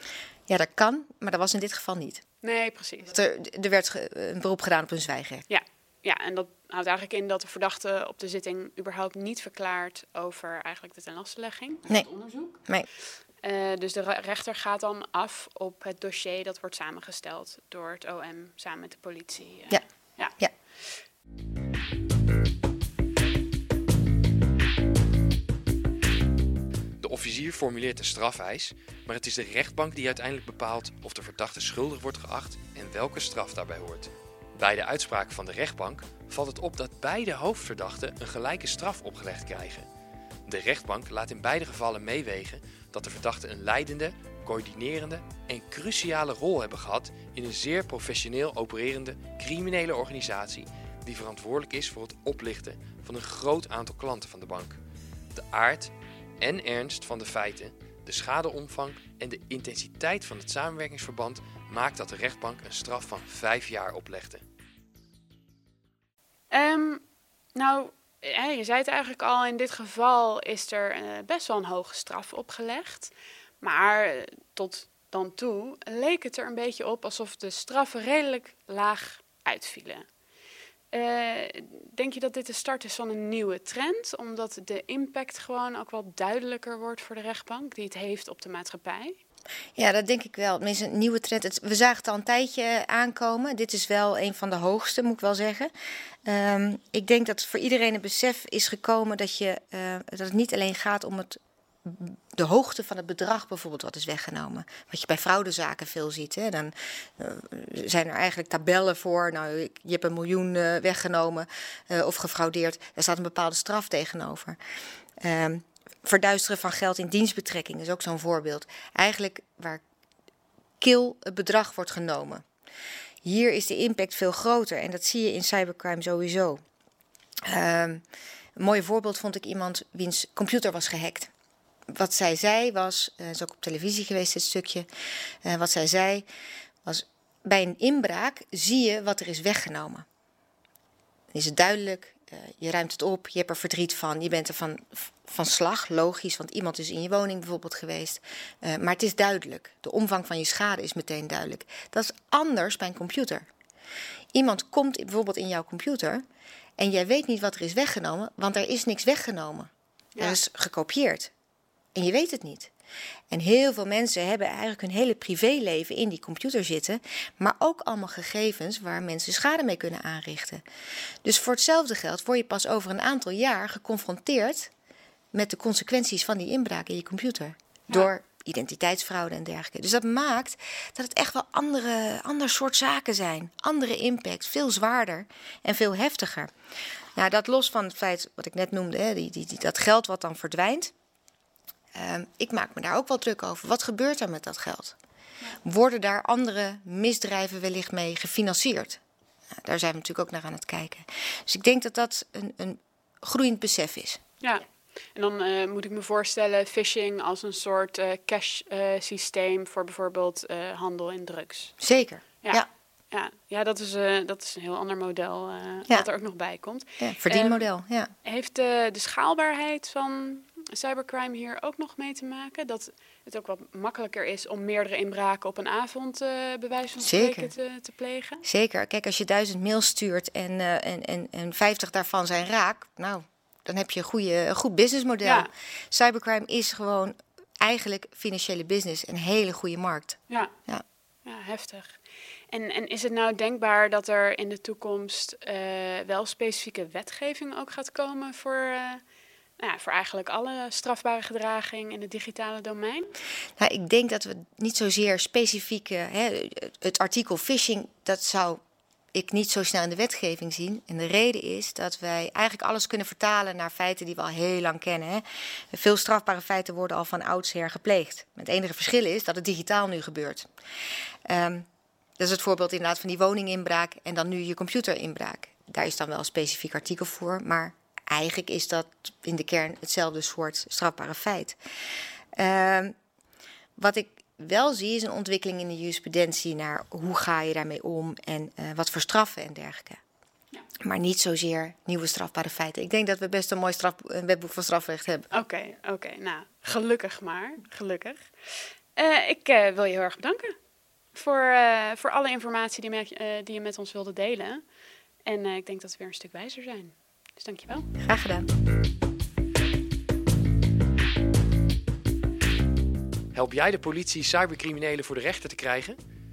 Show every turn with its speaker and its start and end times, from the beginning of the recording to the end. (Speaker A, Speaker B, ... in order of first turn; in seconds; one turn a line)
Speaker A: 0.5-2.2
Speaker B: 2.4-3.1
Speaker A: 3.1-5.4
Speaker B: 5.5-12.6
Speaker B: 13.4-20.4
Speaker C: 27.0-39.9
Speaker C: 40.5-54.8
Speaker C: 55.3-64.4
Speaker B: 66.5-67.0
Speaker B: 67.5-80.0
Speaker B: 80.9-89.2
Speaker A: 89.8-95.7
Speaker A: 96.2-114.6
Speaker A: 115.2-119.8
Speaker A: 120.8-122.4
Speaker A: 123.2-126.6
Speaker A: 127.5-128.0
Speaker A: 128.6-131.3
Speaker A: 131.9-134.9
Speaker A: 135.4-136.2
Speaker A: 136.8-140.0
Speaker A: 141.3-153.4
Speaker A: 154.3-156.2
Speaker A: 156.8-161.3
Speaker B: 160.2-160.4
Speaker A: 161.9-162.7
Speaker A: 163.3-170.6
Speaker A: 171.2-174.7
Speaker A: 175.3-186.5
Speaker A: 187.1-190.9
Speaker A: 191.9-194.9
Speaker A: 195.6-199.0
Speaker A: 199.6-204.2
Speaker B: 204.4-211.7
Speaker A: 211.8-212.7
Speaker B: 212.4-217.7
Speaker A: 217.0-218.1
Speaker B: 218.2-228.4
Speaker A: 227.0-227.5
Speaker A: 228.4-240.8
Speaker B: 235.2-235.5
Speaker B: 241.2-242.0
Speaker B: 242.5-249.0
Speaker B: 249.6-253.1
Speaker A: 253.6-258.6
Speaker A: 259.1-270.5
Speaker A: 271.3-271.6
Speaker A: 272.2-281.6
Speaker A: 282.4-282.9
Speaker A: 283.8-290.0
Speaker A: 290.8-295.3
Speaker B: 295.3-300.5
Speaker B: 301.1-304.6
Speaker B: 305.2-307.9
Speaker A: 308.0-308.5
Speaker C: 313.3-316.0